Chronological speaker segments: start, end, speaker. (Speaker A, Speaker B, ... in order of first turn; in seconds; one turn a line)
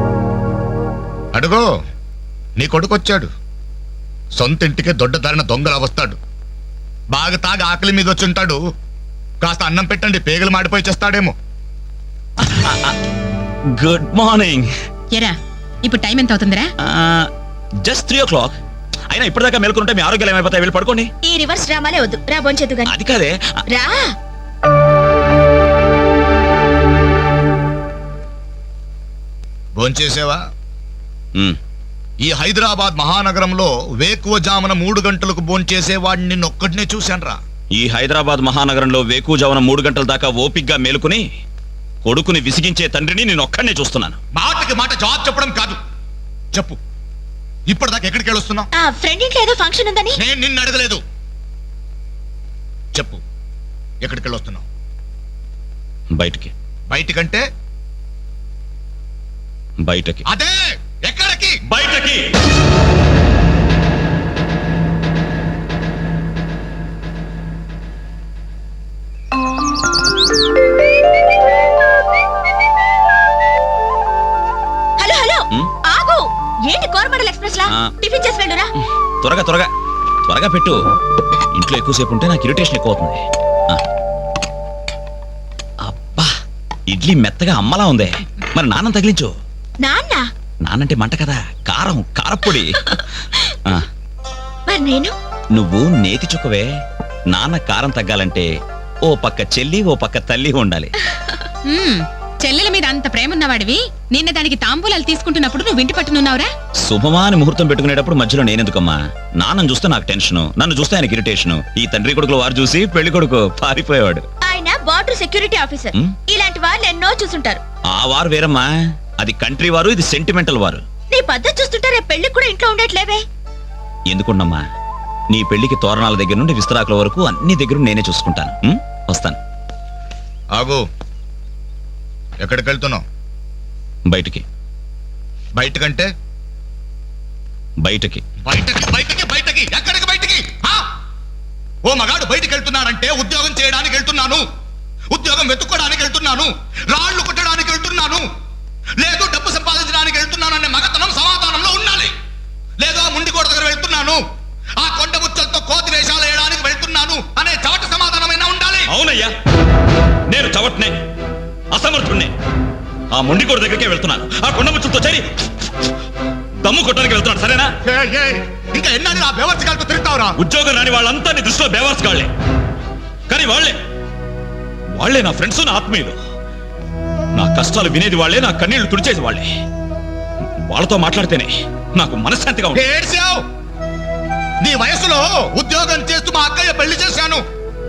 Speaker A: 1.3-1.6
Speaker A: 2.6-3.3
Speaker A: 4.4-6.2
Speaker A: 7.1-8.6
Speaker A: 9.4-11.3
Speaker B: 12.4-12.9
Speaker B: 13.8-14.7
Speaker C: 15.1-16.7
Speaker B: 16.9-17.3
Speaker B: 17.8-18.6
Speaker B: 19.1-21.1
Speaker D: 21.2-22.9
Speaker B: 22.9-23.4
Speaker D: 23.7-24.1
Speaker A: 29.8-30.4
Speaker A: 32.2-37.4
Speaker B: 37.8-41.2
Speaker B: 42.0-44.2
Speaker A: 44.4-45.8
Speaker A: 47.7-48.7
Speaker D: 48.8-50.2
Speaker A: 50.2-51.0
Speaker A: 52.9-53.2
Speaker A: 54.0-54.7
Speaker B: 56.1-56.5
Speaker A: 56.9-57.4
Speaker B: 59.8-60.2
Speaker A: 60.3-61.5
Speaker B: 61.7-62.2
Speaker D: 75.0-78.7
Speaker B: 77.7-77.9
Speaker B: 79.2-79.7
Speaker B: 80.3-80.8
Speaker B: 81.5-83.8
Speaker B: 85.8-86.3
Speaker B: 86.9-89.3
Speaker D: 89.8-90.3
Speaker B: 90.7-93.9
Speaker D: 94.7-95.2
Speaker B: 95.5-96.7
Speaker B: 97.3-98.5
Speaker B: 99.1-100.9
Speaker C: 101.7-106.5
Speaker B: 106.8-114.2
Speaker D: 114.4-117.6
Speaker B: 117.9-118.7
Speaker B: 119.2-120.8
Speaker D: 121.1-123.2
Speaker B: 124.1-124.6
Speaker B: 125.3-129.4
Speaker A: 130.6-130.8
Speaker A: 132.4-133.0
Speaker B: 134.1-134.4
Speaker A: 135.6-136.1
Speaker B: 137.8-138.2
Speaker A: 138.4-140.8
Speaker A: 141.8-144.4
Speaker A: 145.1-148.2
Speaker A: 149.0-152.1
Speaker A: 152.8-154.2
Speaker A: 154.8-158.9
Speaker B: 158.9-159.3
Speaker B: 160.3-160.9
Speaker B: 161.7-162.3
Speaker B: 163.1-165.9
Speaker B: 166.6-167.7
Speaker A: 167.9-170.4
Speaker B: 170.4-172.3
Speaker B: 173.3-173.8
Speaker B: 175.0-176.2
Speaker B: 177.3-179.5
Speaker B: 180.7-182.8
Speaker A: 182.7-183.4
Speaker A: 184.6-187.4